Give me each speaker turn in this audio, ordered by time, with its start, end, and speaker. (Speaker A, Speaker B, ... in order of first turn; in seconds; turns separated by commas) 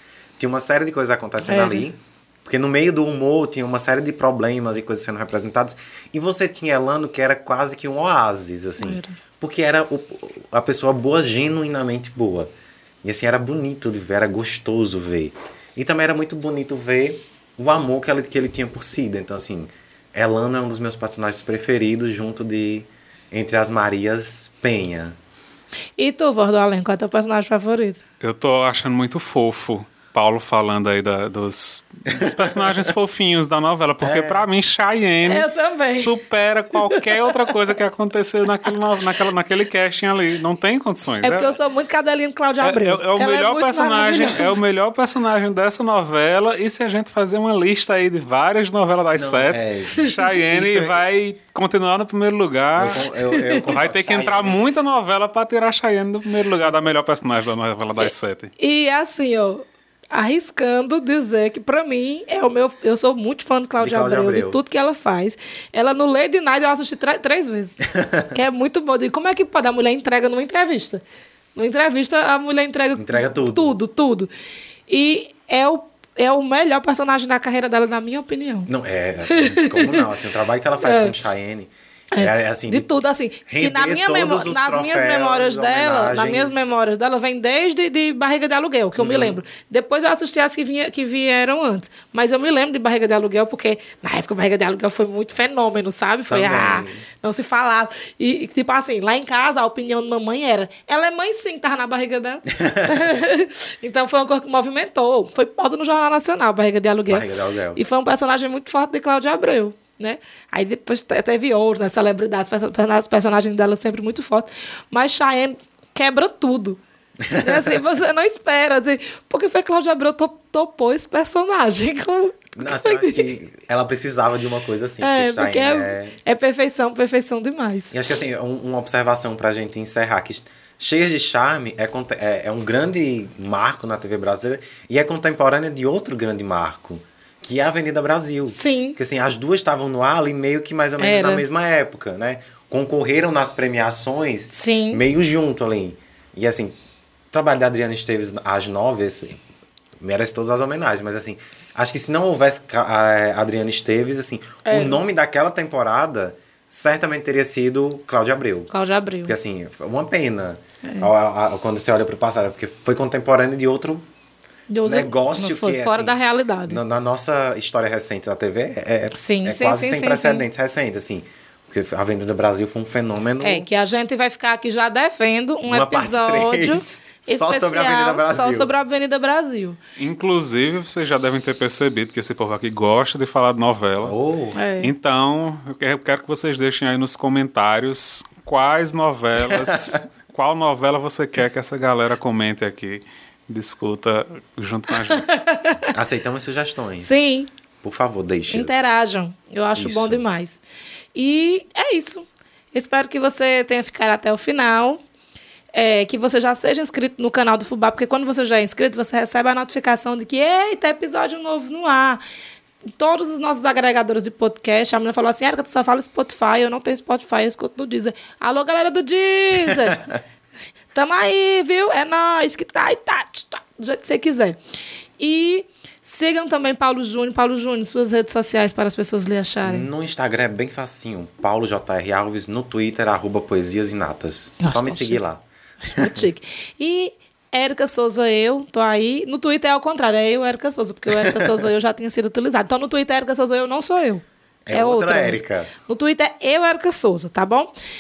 Speaker A: 0.4-12.5, Speaker B: 1.4-1.9, Speaker B: 8.8-9.2, Speaker A: 13.0-25.2, Speaker B: 26.0-28.0, Speaker C: 28.2-41.6, Speaker A: 32.1-32.9, Speaker A: 34.0-34.5, Speaker B: 35.3-36.1, Speaker B: 36.7-37.6, Speaker B: 41.2-44.6, Speaker C: 42.6-53.1, Speaker A: 49.1-51.0, Speaker B: 50.0-50.3, Speaker A: 52.8-54.6, Speaker B: 53.2-53.6, Speaker C: 53.6-58.5, Speaker B: 58.0-71.0, Speaker A: 63.8-64.6, Speaker A: 67.9-68.3, Speaker B: 71.5-74.3, Speaker A: 73.0-73.8, Speaker B: 74.9-78.7, Speaker A: 78.7-86.6, Speaker B: 79.3-80.1, Speaker B: 80.8-81.1, Speaker B: 82.1-116.8, Speaker A: 89.0-89.4, Speaker A: 96.3-97.0, Speaker A: 102.6-103.1, Speaker A: 107.1-107.8, Speaker A: 117.2-117.8, Speaker B: 117.4-123.3, Speaker A: 122.6-126.2, Speaker B: 125.0-128.0, Speaker A: 127.9-146.7, Speaker B: 138.5-139.0, Speaker B: 141.0-141.4, Speaker B: 144.5-145.0, Speaker A: 147.3-149.4, Speaker A: 150.0-158.7, Speaker B: 154.7-155.0, Speaker B: 158.7-159.3, Speaker A: 159.2-164.0, Speaker B: 164.7-166.8, Speaker A: 164.9-173.7, Speaker B: 169.2-170.5, Speaker B: 173.4-179.8, Speaker A: 175.7-178.7, Speaker C: 180.0-184.2, Speaker A: 184.0-184.6, Speaker B: 184.6-184.9, Speaker C: 184.8-195.3, Speaker A: 189.5-190.0, Speaker B: 195.1-195.9, Speaker A: 195.9-197.2, Speaker B: 197.0-197.5, Speaker A: 197.8-198.8, Speaker B: 198.5-200.6, Speaker A: 199.8-200.2, Speaker B: 201.2-205.0, Speaker B: 205.7-212.2, Speaker B: 212.9-220.0, Speaker A: 219.6-220.2, Speaker B: 220.9-224.6, Speaker B: 225.2-229.9, Speaker A: 229.6-236.2, Speaker B: 234.6-235.2, Speaker B: 235.9-247.7, Speaker A: 241.1-241.7, Speaker A: 244.7-245.7